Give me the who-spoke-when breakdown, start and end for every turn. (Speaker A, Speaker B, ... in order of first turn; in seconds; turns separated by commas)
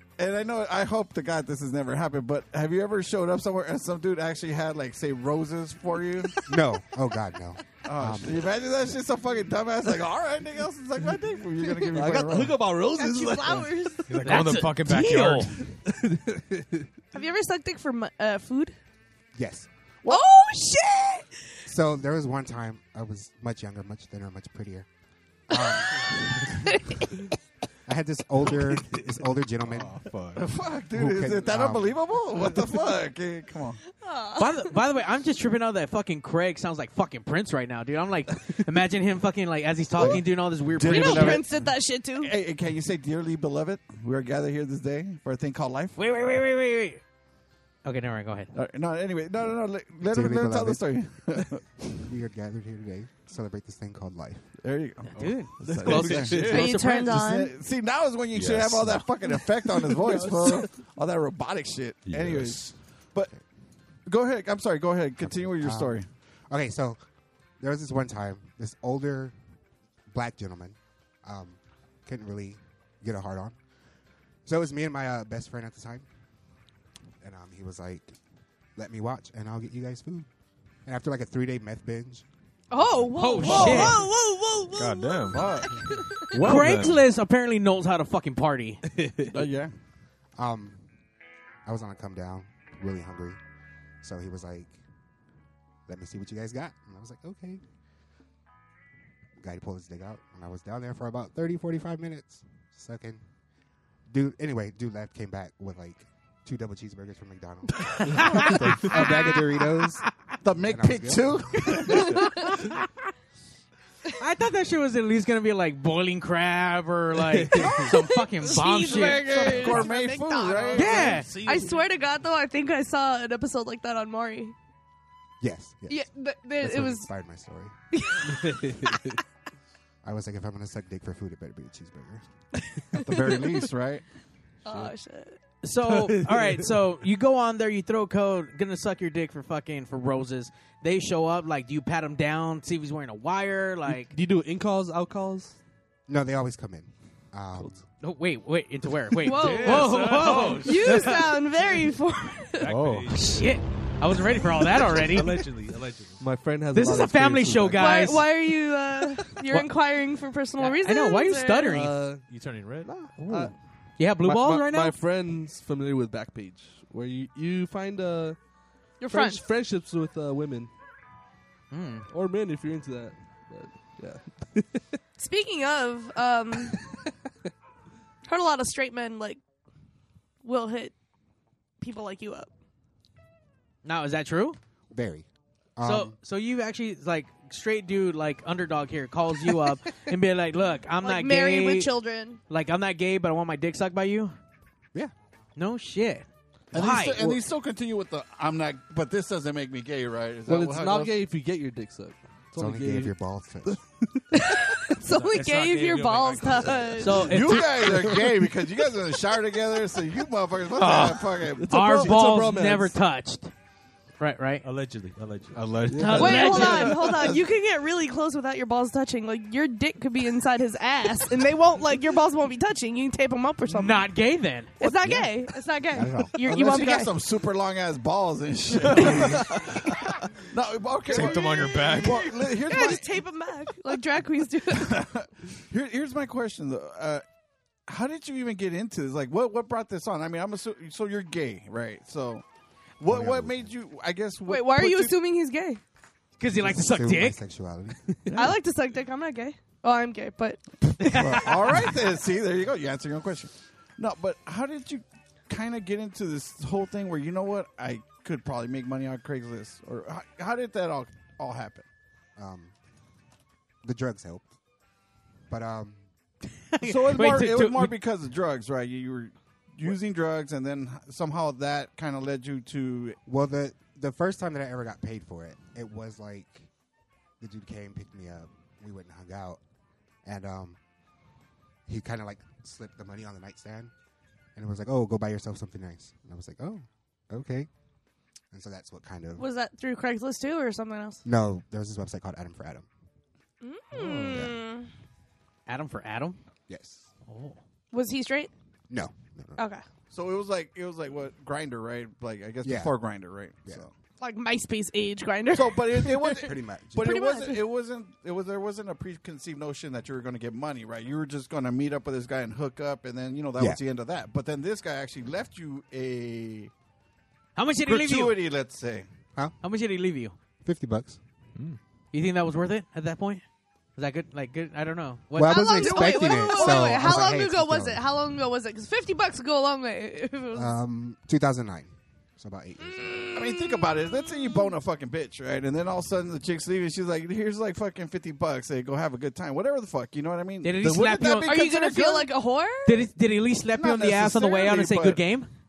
Speaker A: 0.2-6.4, Speaker B: 6.5-8.4, Speaker A: 7.8-12.6, Speaker C: 11.6-12.0, Speaker D: 11.9-13.8, Speaker C: 12.9-14.4, Speaker E: 14.1-15.5, Speaker F: 14.2-15.5, Speaker D: 15.9-16.9, Speaker C: 17.1-18.8, Speaker B: 19.4-19.7, Speaker C: 20.1-21.6, Speaker B: 21.7-24.9, Speaker B: 25.5-26.1, Speaker B: 27.9-30.0, Speaker E: 30.0-30.4, Speaker A: 30.4-33.8, Speaker B: 30.9-32.0, Speaker C: 33.9-34.8, Speaker F: 34.4-41.4, Speaker A: 40.0-46.0, Speaker C: 40.8-42.3, Speaker F: 46.0-47.0, Speaker F: 47.9-48.5, Speaker A: 48.5-51.6, Speaker B: 50.1-51.0, Speaker B: 52.0-54.4, Speaker A: 54.6-63.3, Speaker F: 55.2-57.2, Speaker D: 55.9-56.5, Speaker G: 55.9-56.5, Speaker C: 56.4-57.6, Speaker E: 58.3-59.1, Speaker E: 62.1-62.7, Speaker A: 64.1-66.1, Speaker B: 65.2-66.0, Speaker B: 66.5-67.0, Speaker B: 67.6-69.3, Speaker B: 70.1-73.6, Speaker B: 74.5-76.1, Speaker B: 77.2-78.2, Speaker B: 78.8-80.3, Speaker B: 80.8-82.3, Speaker C: 82.7-86.4, Speaker F: 83.2-84.0, Speaker A: 83.4-84.0, Speaker E: 84.8-85.5, Speaker A: 85.3-85.8, Speaker E: 86.3-87.0, Speaker F: 86.3-88.8, Speaker A: 89.3-89.7, Speaker B: 90.4-90.8, Speaker B: 91.7-93.4, Speaker B: 94.0-94.8, Speaker B: 95.9-97.6, Speaker B: 99.4-103.2, Speaker B: 104.1-110.0, Speaker A: 110.4-112.4, Speaker B: 110.7-111.4, Speaker C: 112.0-112.6, Speaker F: 114.2-119.9, Speaker D: 117.3-117.9, Speaker C: 117.7-124.5, Speaker A: 119.0-121.2, Speaker F: 120.7-121.3, Speaker G: 120.8-121.9, Speaker B: 125.4-126.1, Speaker C: 125.9-127.1, Speaker B: 126.6-127.7, Speaker C: 127.9-129.0, Speaker D: 128.4-129.1, Speaker B: 130.0-132.2, Speaker A: 132.9-134.0, Speaker C: 134.7-135.4, Speaker F: 135.6-144.2, Speaker G: 135.9-136.6, Speaker D: 143.9-145.6, Speaker B: 146.1-147.8, Speaker F: 148.0-151.4, Speaker C: 149.2-152.8, Speaker G: 149.3-151.4, Speaker G: 152.6-153.6, Speaker E: 152.7-153.2, Speaker F: 153.1-155.4, Speaker G: 154.8-156.2, Speaker D: 156.2-158.1, Speaker F: 156.7-158.3, Speaker C: 157.8-161.8, Speaker F: 160.6-162.1, Speaker D: 161.7-162.2, Speaker G: 162.3-162.9, Speaker D: 162.9-163.5, Speaker F: 163.2-164.9, Speaker D: 164.2-168.4, Speaker C: 169.0-169.4, Speaker D: 169.0-170.7, Speaker F: 171.7-172.1, Speaker D: 172.1-174.8, Speaker C: 175.2-176.8, Speaker C: 178.3-179.4, Speaker C: 180.4-180.9, Speaker C: 181.8-182.5, Speaker F: 183.8-184.6, Speaker B: 184.9-186.2, Speaker F: 185.8-191.9, Speaker C: 191.0-192.4, Speaker F: 192.5-194.3, Speaker F: 195.6-197.4, Speaker A: 196.7-201.2, Speaker D: 200.5-204.5, Speaker B: 202.6-203.8, Speaker C: 204.3-207.4, Speaker G: 205.0-207.3, Speaker F: 207.0-207.9, Speaker A: 207.2-212.1, Speaker F: 210.8-213.5, Speaker D: 211.6-212.9, Speaker F: 214.2-214.6, Speaker G: 214.6-216.9, Speaker E: 215.5-216.9, Speaker D: 215.9-216.4, Speaker C: 216.1-224.1, Speaker A: 216.7-217.4, Speaker F: 223.7-224.8, Speaker C: 224.8-227.1, Speaker B: 225.0-226.4, Speaker A: 226.4-233.2, Speaker E: 231.1-232.2, Speaker C: 231.1-235.0, Speaker A: 234.7-237.2, Speaker A: 237.9-242.4, Speaker A: 243.0-245.2, Speaker B: 243.1-243.7, Speaker C: 244.5-245.8, Speaker F: 246.4-247.4, Speaker B: 246.6-248.2, Speaker A: 248.3-248.6, Speaker C: 248.3-250.6, Speaker A: 250.9-261.9, Speaker F: 251.0-251.7, Speaker B: 262.4-262.7, Speaker B: 263.8-264.5, Speaker B: 265.5-266.0, Speaker F: 266.7-268.0, Speaker A: 266.8-273.2, Speaker B: 273.3-276.7, Speaker B: 277.4-279.6, Speaker B: 280.2-280.8, Speaker B: 281.9-283.9, Speaker B: 284.6-287.7, Speaker B: 288.5-289.5, Speaker C: 289.4-291.2, Speaker B: 291.2-292.9, Speaker C: 293.6-294.9, Speaker B: 294.0-294.6, Speaker F: 295.7-296.4, Speaker B: 296.7-297.1, Speaker F: 297.3-297.6, Speaker C: 297.9-298.5, Speaker B: 298.9-299.6, Speaker C: 299.6-299.8, Speaker A: 300.1-303.9, Speaker B: 302.6-302.9, Speaker C: 304.2-307.6, Speaker A: 305.5-316.7, Speaker B: 306.4-307.1, Speaker F: 317.6-318.4, Speaker A: 317.9-319.1, Speaker F: 319.6-320.4, Speaker B: 320.6-321.2, Speaker F: 322.1-323.4, Speaker F: 324.0-326.5, Speaker B: 325.4-328.1, Speaker C: 325.4-330.7, Speaker B: 330.5-333.4, Speaker C: 333.0-334.7, Speaker A: 333.3-342.3, Speaker F: 340.6-341.5, Speaker C: 341.4-343.1, Speaker F: 342.9-345.5, Speaker A: 343.8-345.2